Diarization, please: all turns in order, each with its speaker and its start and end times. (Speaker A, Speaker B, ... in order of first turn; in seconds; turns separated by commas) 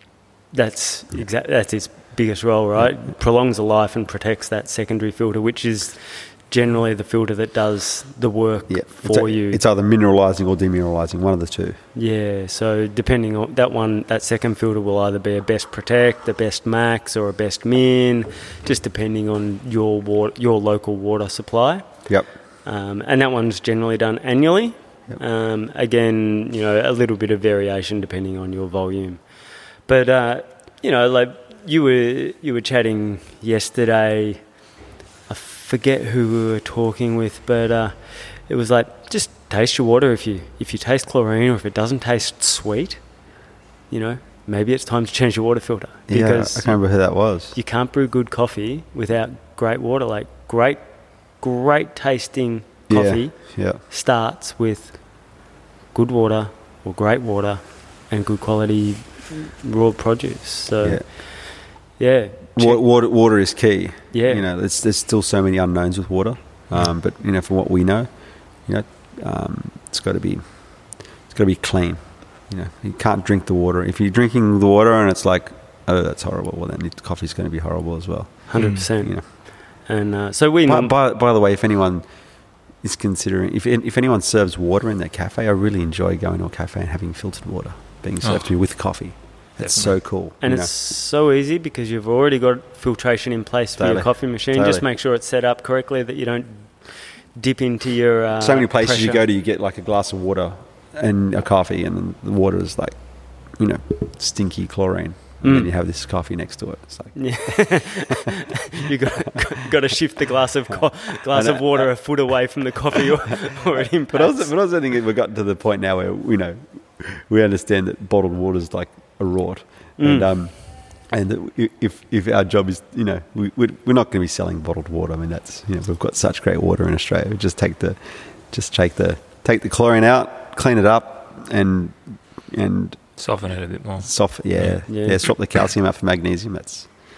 Speaker A: 0.5-9.6, Speaker B: 8.7-11.8, Speaker A: 11.9-21.9, Speaker A: 22.6-29.2, Speaker A: 29.9-34.4, Speaker A: 35.3-43.0, Speaker A: 43.9-46.8, Speaker B: 46.1-47.5, Speaker A: 47.5-55.4, Speaker B: 52.9-53.8, Speaker A: 55.9-62.8, Speaker B: 62.5-68.1, Speaker A: 64.1-64.4, Speaker B: 68.7-79.2, Speaker A: 78.5-80.9, Speaker C: 78.6-78.8, Speaker B: 80.7-82.0, Speaker B: 82.8-90.7, Speaker C: 88.2-88.5, Speaker C: 89.6-90.0, Speaker A: 90.4-99.2, Speaker B: 93.8-94.8, Speaker B: 98.4-108.2, Speaker A: 105.4-105.7, Speaker A: 107.1-114.5, Speaker B: 111.3-111.9, Speaker B: 113.8-128.0, Speaker A: 120.0-120.3, Speaker B: 128.5-133.0, Speaker C: 133.2-134.8, Speaker B: 134.0-136.9, Speaker A: 134.9-135.2